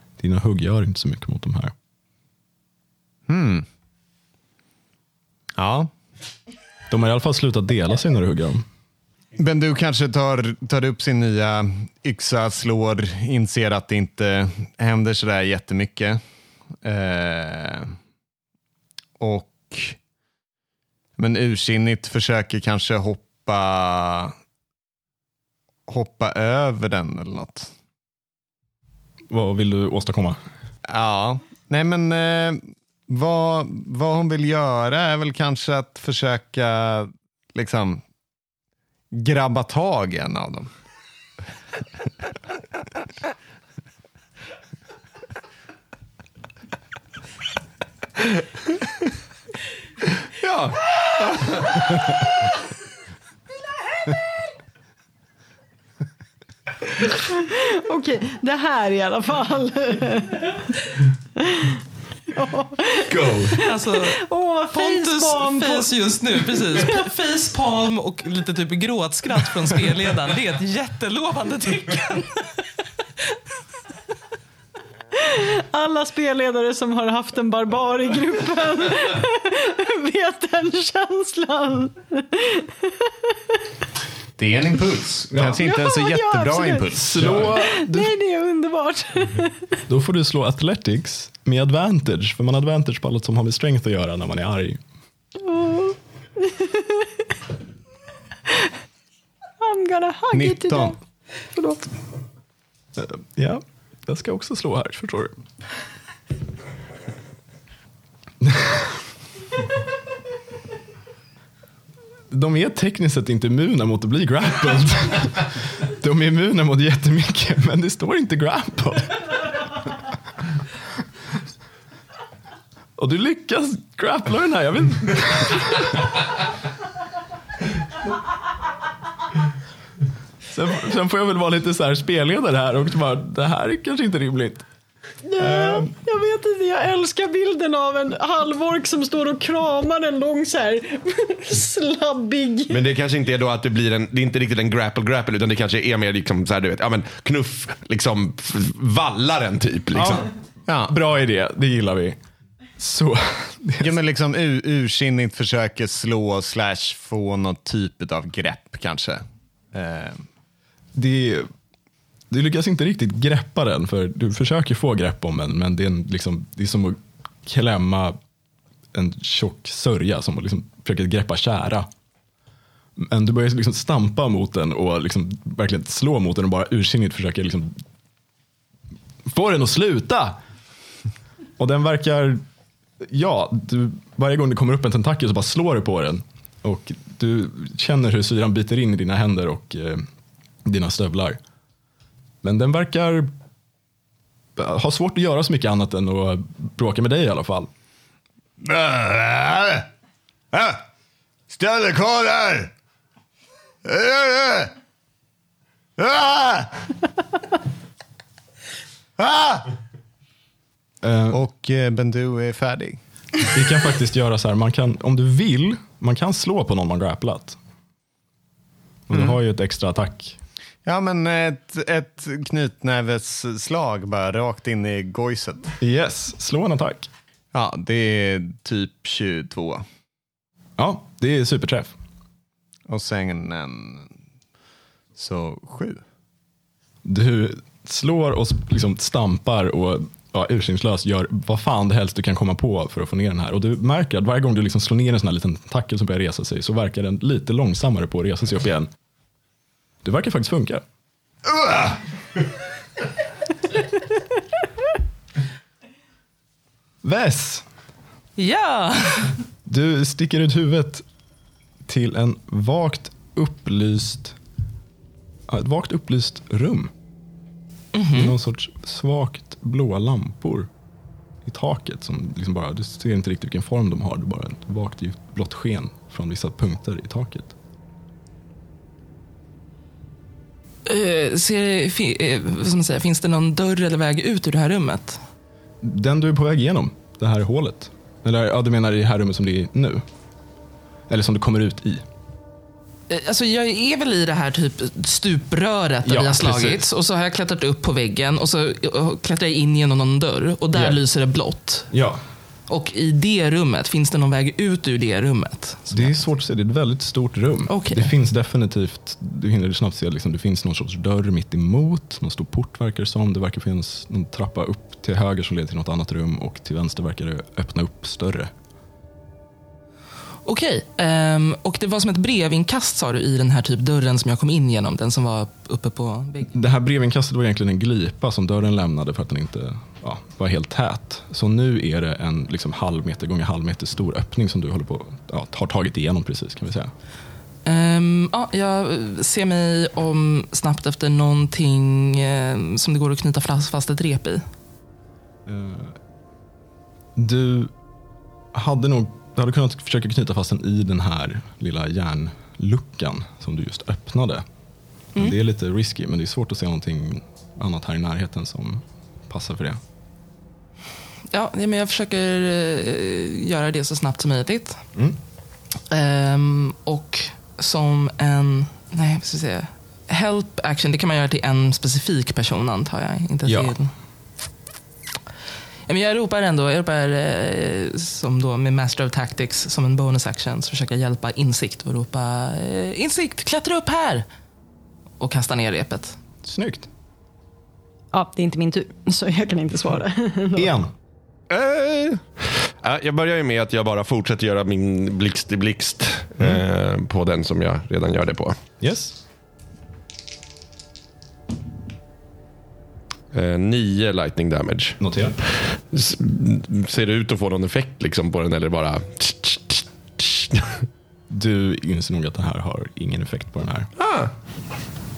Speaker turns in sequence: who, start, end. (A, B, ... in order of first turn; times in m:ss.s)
0:00.2-0:01.7 A
0:03.3-0:03.7 B
0:05.6-0:05.9 B
0:06.9-0:08.6 A
0:09.4-0:16.2 B
0:16.8-0:17.9 B
0:19.2-0:20.0 B
0:21.2-0:24.3 B
0:25.9-0:27.7 B
0:29.3-0:30.4 A
0:30.8-0:38.0 B
0:39.1-0:40.7 B
0:50.3-0:51.9 C
0:57.1-1:00.6 D
1:01.4-1:01.8 D
1:02.3-1:06.9 D
1:03.5-1:12.7 E
1:15.2-1:23.6 D
1:24.4-1:27.5 B
1:25.6-1:26.9 D
1:27.0-1:28.1 A
1:27.4-1:29.8 D
1:29.9-1:34.8 A
1:35.4-1:37.2 D
1:39.6-1:41.0 D
1:40.3-1:40.9 B
1:41.5-1:41.9 D
1:43.0-1:45.4 A
1:48.4-1:49.0 A
1:52.3-1:59.4 A
2:03.0-2:06.2 A
2:10.5-2:14.6 A
2:15.2-2:22.8 D
2:15.4-2:15.9 A
2:22.7-2:30.3 C
2:29.9-2:30.2 A
2:30.7-2:30.9 B
2:30.8-2:32.2 A
2:32.8-2:34.0 A
2:33.8-2:40.2 B
2:40.9-2:41.5 A
2:42.3-2:48.2 A
2:48.9-2:51.9 A
2:53.0-2:57.8 A
2:59.3-3:00.4 A
3:01.6-3:02.4 A
3:03.0-3:10.1 A
3:10.6-3:11.4 A
3:12.4-3:13.3 A
3:14.6-3:17.7 A
3:18.6-3:19.9 B
3:20.5-3:20.8 B
3:21.5-3:22.7 B
3:23.8-3:24.7 B
3:26.0-3:26.9 B
3:29.2-3:29.7 B
3:31.0-3:31.4 A
3:31.3-3:33.0 B
3:33.5-3:37.6 A
3:39.1-3:40.4 A
3:39.1-3:39.4 B
3:40.8-3:45.7 B
3:45.8-3:47.1 A
3:47.5-3:49.8 B
3:50.8-3:51.9 A
3:52.9-3:54.1 B
3:55.2-3:56.0 B
3:57.0-4:08.9 A
4:10.0-4:10.8 A
4:11.4-4:12.0 B
4:17.0-4:17.6 A
4:18.4-4:19.4 E
4:19.6-4:21.0 A
4:21.8-4:24.4 A
4:25.5-4:26.9 A
4:27.9-4:28.3 E
4:28.1-4:30.7 A
4:31.4-4:37.5 A
4:40.8-4:45.2 E
4:45.8-4:50.0 A
4:51.1-4:52.0 A
4:53.1-5:01.9 E
4:56.0-4:56.8 A
5:00.7-5:01.0 A
5:01.9-5:02.2 A
5:02.7-5:06.1 E
5:05.9-5:18.5 A
5:07.7-5:08.1 E
5:20.4-5:26.5 E
5:26.5-5:36.9 A
5:37.6-5:44.4 E
5:45.4-5:46.0 A
5:47.2-5:47.7 A
5:48.5-5:54.4 A
5:55.1-5:59.8 A
6:01.3-6:04.8 E
6:05.9-6:13.9 E
6:13.4-6:13.7 A
6:15.9-6:24.2 E
6:25.2-6:26.2 E
6:26.4-6:26.9 A
6:28.1-6:30.7 D
6:30.5-6:30.9 A
6:31.5-6:38.6 C
6:38.8-6:39.2 A
6:43.3-6:50.8 C
6:45.0-6:45.4 A
6:51.3-6:53.9 A
6:54.0-6:54.3 C